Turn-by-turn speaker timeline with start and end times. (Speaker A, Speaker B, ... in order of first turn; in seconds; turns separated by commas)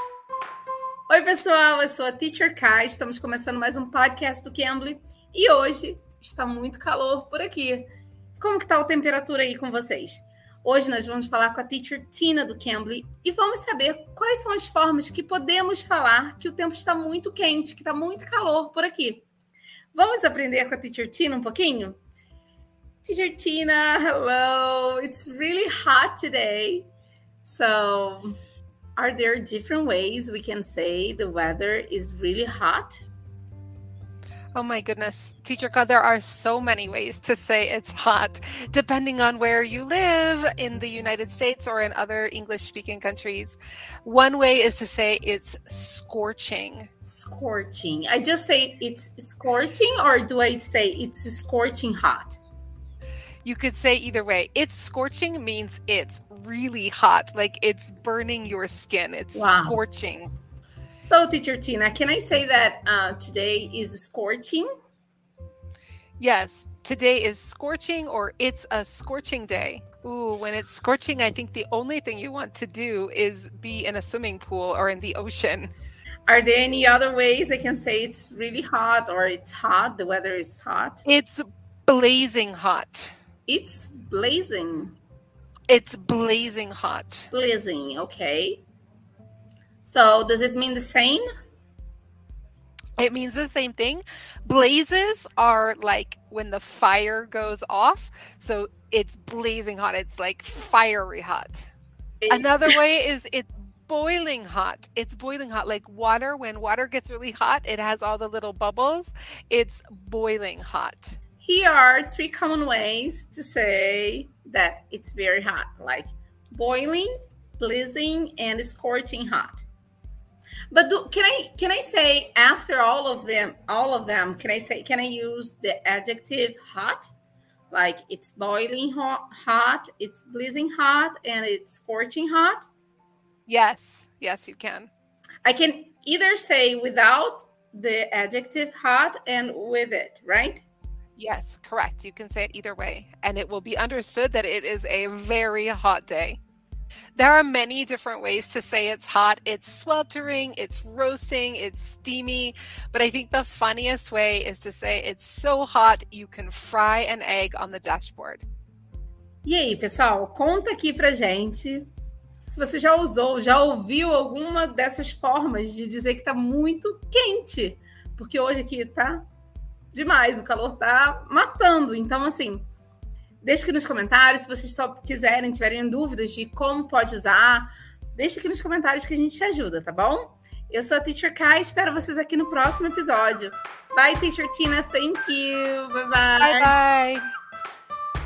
Speaker A: 1.1-7.9, Speaker A: 8.4-19.2, Speaker A: 19.9-22.0, Speaker A: 23.0-26.9, Speaker A: 27.4-28.4, Speaker A: 29.0-33.1, Speaker B: 34.5-46.9, Speaker A: 47.0-52.4, Speaker B: 53.4-60.3, Speaker A: 59.3-59.8, Speaker A: 61.0-64.7, Speaker B: 66.2-75.7, Speaker A: 76.3-81.0, Speaker B: 81.1-83.1, Speaker A: 83.5-85.0, Speaker B: 85.7-87.3, Speaker A: 87.3-88.6, Speaker A: 89.8-91.2, Speaker B: 93.0-101.7, Speaker B: 102.3-111.2, Speaker A: 111.4-119.7, Speaker A: 120.7-127.1, Speaker A: 127.7-132.7, Speaker B: 133.5-134.9, Speaker A: 135.4-140.7, Speaker B: 141.2-146.4, Speaker B: 147.2-158.4, Speaker A: 159.4-161.9, Speaker A: 162.5-169.2, Speaker A: 169.9-172.7, Speaker A: 173.4-186.7, Speaker B: 186.4-187.2